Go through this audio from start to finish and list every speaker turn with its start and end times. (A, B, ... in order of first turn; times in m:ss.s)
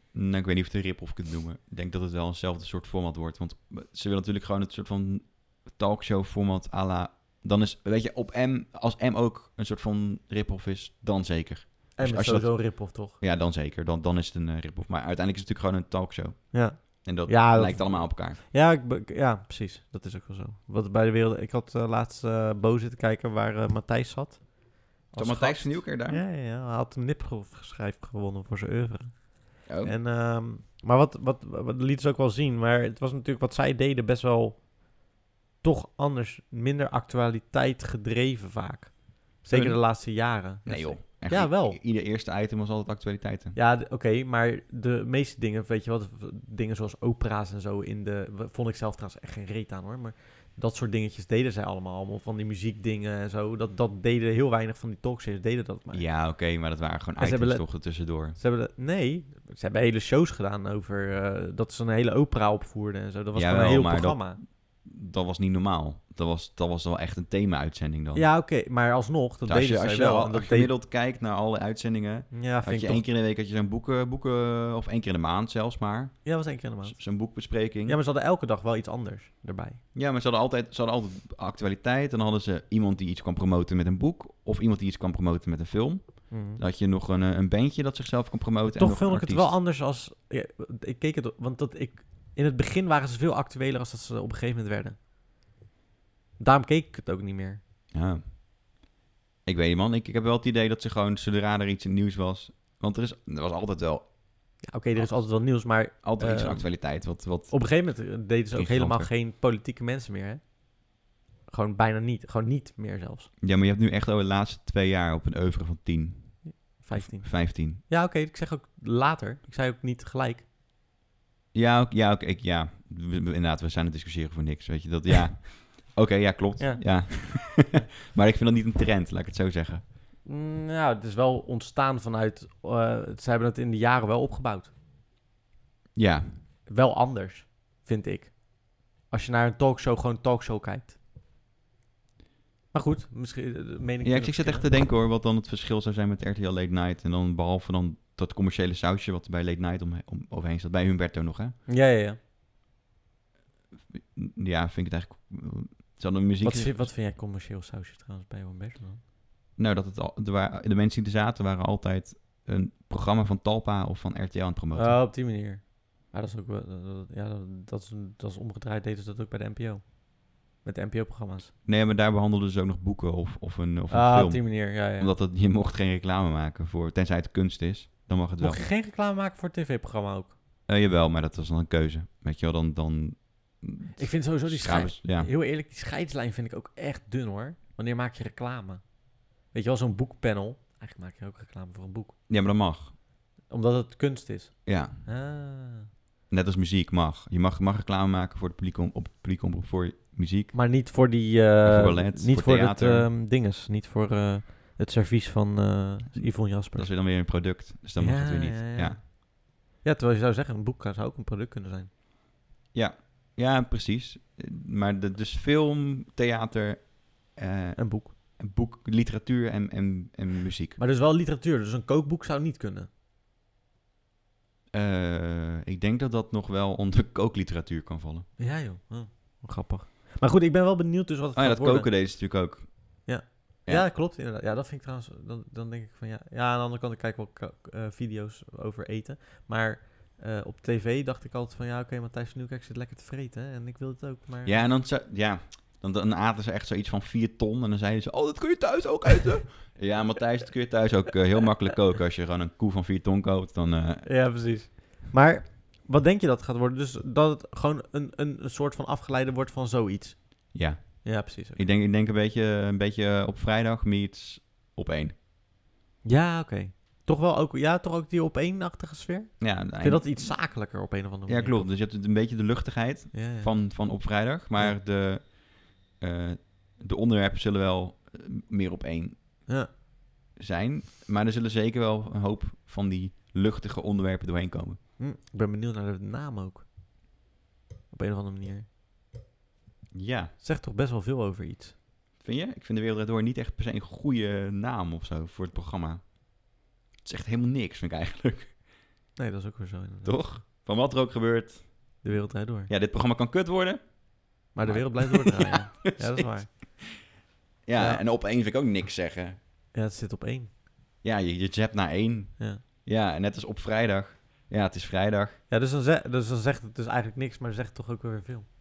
0:00.1-0:18.4 A
0:12.0-0:13.2 B
0:16.5-0:34.7 B
0:25.2-0:26.2 A
0:29.7-0:30.0 A
0:35.6-0:41.8 B
0:39.5-0:43.6 A
0:43.6-0:56.1 B
0:55.9-0:58.4 A
0:57.2-1:04.4 B
1:03.3-1:08.3 A
1:08.1-1:10.7 B
1:09.5-1:16.3 A
1:12.3-1:13.0 B
1:16.2-1:17.0 B
1:16.8-1:18.0 A
1:17.9-1:19.8 B
1:19.9-1:29.6 A
1:26.3-1:26.6 B
1:28.8-1:35.0 B
1:36.4-1:37.6 B
1:37.9-1:38.2 A
1:39.4-1:47.7 A
1:44.6-1:50.4 B
1:48.5-1:49.1 A
1:51.5-1:53.3 B
1:53.4-1:57.8 A
1:56.4-2:00.4 B
2:01.5-2:09.8 A
2:06.6-2:07.6 B
2:10.3-2:14.7 B
2:15.9-2:16.3 A
2:16.7-2:21.0 B
2:22.7-2:24.7 B
2:24.0-2:31.6 A
2:31.7-2:32.2 B
2:33.9-2:36.9 A
2:36.4-2:39.0 B
2:39.6-2:45.0 A
2:44.7-2:50.0 B
2:50.6-2:51.5 B
2:51.6-2:58.6 A
2:53.9-2:55.1 B
2:58.4-3:00.4 B
3:00.7-3:05.3 A
3:04.0-3:08.9 B
3:09.5-3:12.2 B
3:12.3-3:13.0 A
3:13.5-3:15.9 B
3:14.6-3:15.0 A
3:16.3-3:20.6 A
3:20.5-3:26.9 B
3:21.6-3:23.1 A
3:26.1-3:29.0 A
3:28.0-3:29.2 B
3:29.8-3:31.9 B
3:32.7-3:40.8 A
3:37.8-3:38.1 B
3:40.8-3:42.9 B
3:44.7-3:48.3 A
3:48.4-3:51.9 B
3:51.3-3:53.0 A
3:53.0-4:04.6 B
4:04.4-4:14.1 A
4:14.0-4:21.6 B
4:20.5-4:25.1 A
4:26.0-4:31.7 B
4:29.4-4:30.7 A
4:31.3-4:39.2 A
4:33.1-4:33.5 B
4:40.4-4:44.8 A
4:45.0-4:46.7 B
4:47.9-4:48.6 B
4:49.9-4:50.3 A
4:50.4-4:51.7 B
4:52.2-4:56.2 A
4:57.0-4:58.6 A
4:59.2-5:00.2 B
5:00.0-5:02.0 A
5:02.0-5:02.7 B
5:02.7-5:07.0 A
5:04.5-5:06.5 B
5:07.6-5:09.4 A
5:07.8-5:08.0 B
5:09.7-5:10.5 B
5:11.0-5:15.4 A
5:15.5-5:18.5 B